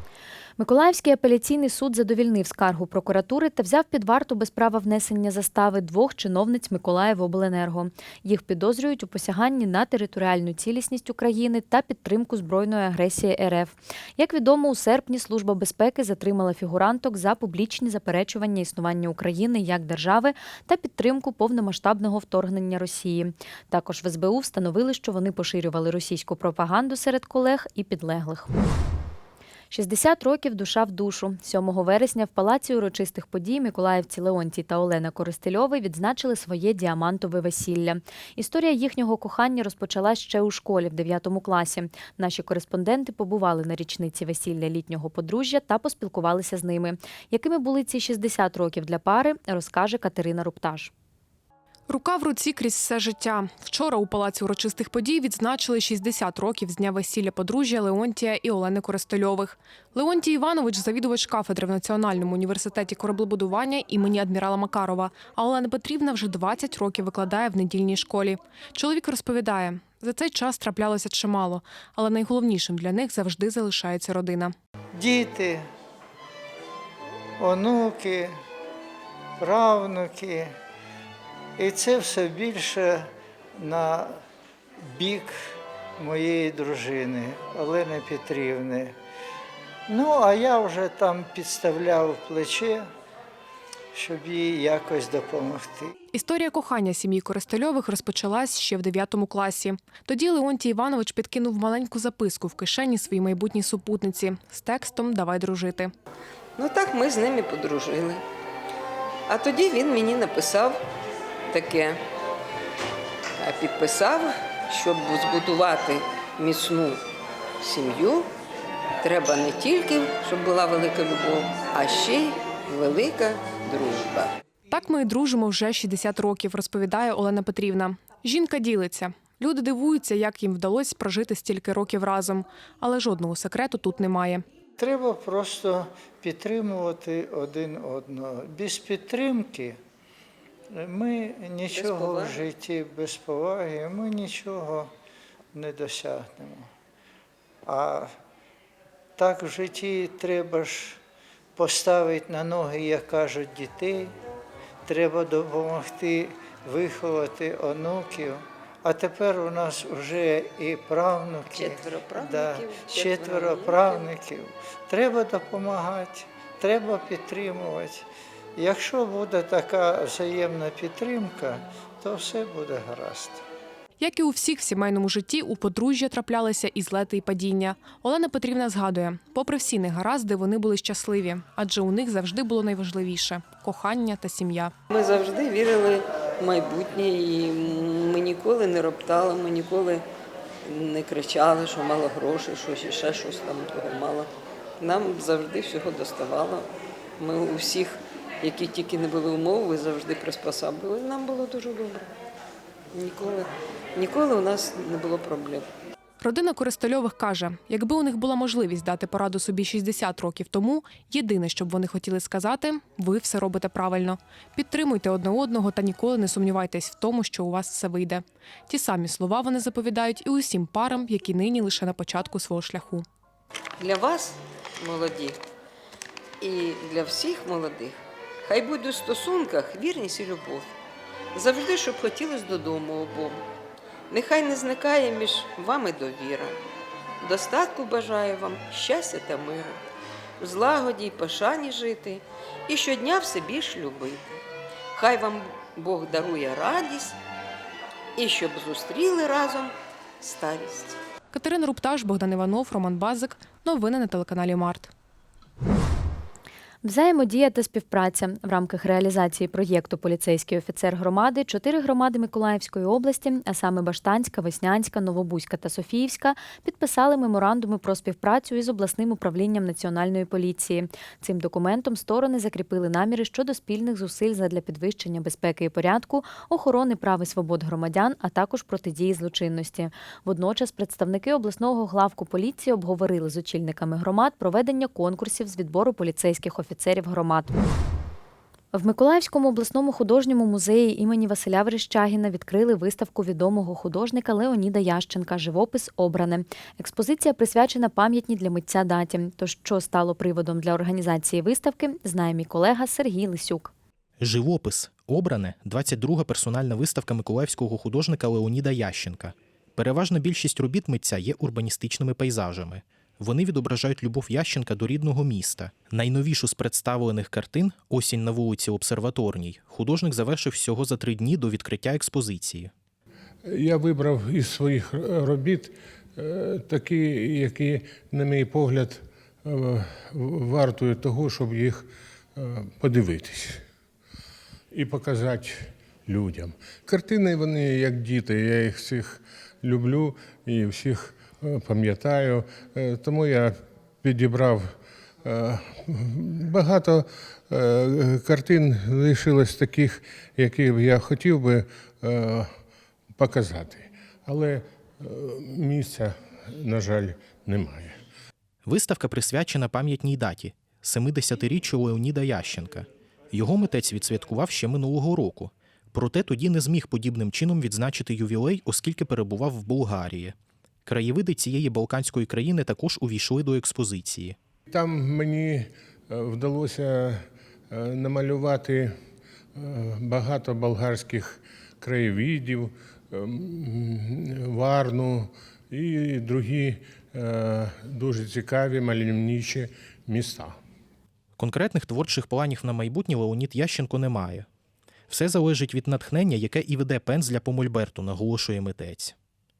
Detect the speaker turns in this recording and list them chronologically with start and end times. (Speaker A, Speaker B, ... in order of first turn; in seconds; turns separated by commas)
Speaker A: 0.6-28.5, Speaker A: 29.7-50.9, Speaker B: 51.9-74.5, Speaker C: 75.0-75.6, Speaker C: 77.4-78.3, Speaker C: 79.4-80.4, Speaker C: 81.6-82.9, Speaker C: 83.7-83.9, Speaker C: 85.0-85.3, Speaker C: 86.0-88.9, Speaker C: 89.9-92.8, Speaker C: 94.0-95.9, Speaker B: 96.1-105.9, Speaker D: 106.5-108.2, Speaker D: 109.3-110.8, Speaker D: 111.5-112.0, Speaker D: 113.4-117.0, Speaker D: 117.6-118.3, Speaker D: 119.0-124.3, Speaker B: 124.7-134.4, Speaker C: 134.8-139.7, Speaker C: 140.8-144.8, Speaker D: 141.7-142.4, Speaker C: 145.6-146.6, Speaker C: 147.7-148.0, Speaker C: 149.2-150.9, Speaker C: 151.6-154.0, Speaker C: 154.9-168.0, Speaker D: 161.5-164.1, Speaker C: 168.6-173.4, Speaker B: 174.0-184.7, Speaker D: 184.9-190.0, Speaker D: 190.6-196.7, Speaker D: 197.2-202.1, Speaker D: 202.9-205.7, Speaker B: 206.2-223.0, Speaker D: 223.8-225.4, Speaker D: 226.4-230.7, Speaker D: 231.3-233.4, Speaker D: 234.1-236.6, Speaker D: 237.2-239.8, Speaker D: 240.4-244.4, Speaker D: 244.9-247.2, Speaker D: 248.2-251.0, Speaker B: 251.3-254.9, Speaker A: 256.8-287.5, Speaker A: 288.7-303.7, Speaker E: 304.2-322.7, Speaker F: 323.4-333.6, Speaker F: 334.7-344.7, Speaker F: 345.2-352.5, Speaker F: 353.1-358.0, Speaker E: 358.6-370.3, Speaker E: 370.9-374.4, Speaker F: 374.7-378.9, Speaker F: 379.5-390.5, Speaker E: 391.4-394.4, Speaker E: 395.1-399.1